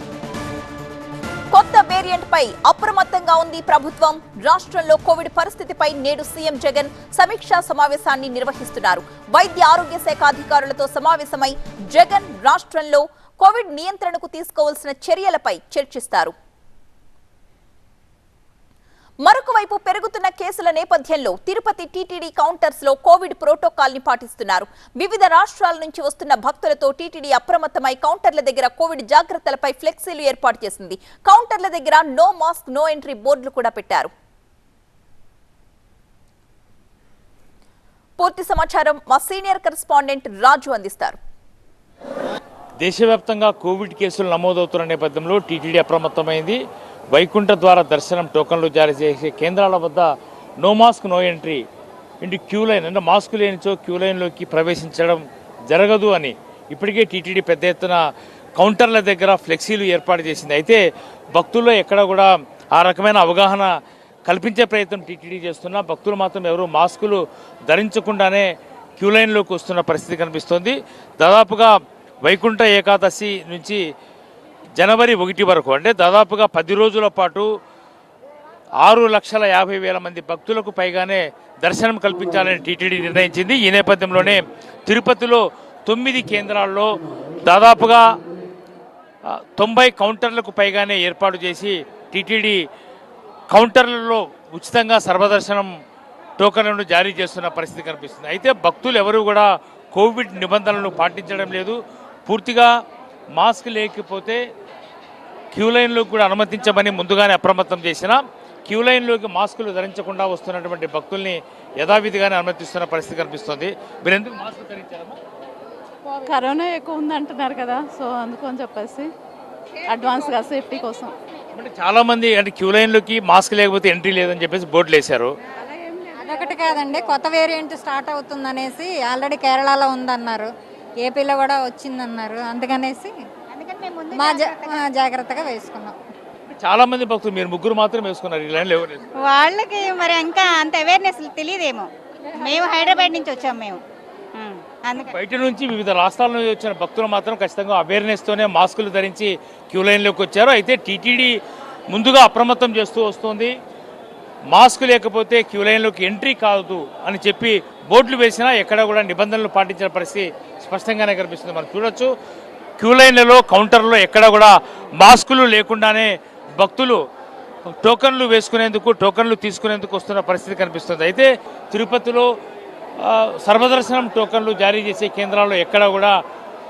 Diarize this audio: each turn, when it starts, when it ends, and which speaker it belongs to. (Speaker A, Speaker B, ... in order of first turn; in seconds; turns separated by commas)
Speaker A: 1.5-16.3, Speaker A: 19.2-34.1, Speaker A: 38.2-41.2, Speaker B: 42.8-46.6, Speaker B: 47.1-51.6, Speaker B: 52.2-58.0, Speaker B: 58.6-60.8, Speaker B: 61.3-63.7, Speaker B: 64.3-71.7, Speaker B: 72.2-73.8, Speaker B: 74.8-77.5, Speaker B: 78.8-86.9, Speaker B: 87.5-88.1, Speaker B: 89.3-92.6, Speaker B: 93.5-95.7, Speaker B: 96.4-102.7, Speaker B: 103.4-104.4, Speaker B: 105.5-115.2, Speaker C: 116.3-119.1, Speaker C: 119.9-121.1, Speaker B: 121.5-125.3, Speaker D: 126.2-130.5, Speaker D: 131.0-133.1, Speaker E: 133.5-134.8, Speaker D: 134.1-136.0, Speaker B: 136.5-139.0, Speaker E: 139.2-143.8, Speaker E: 144.3-145.1, Speaker B: 145.0-151.4, Speaker B: 151.9-153.5, Speaker B: 154.5-162.1, Speaker B: 162.8-167.0, Speaker B: 167.7-172.3, Speaker B: 173.0-176.2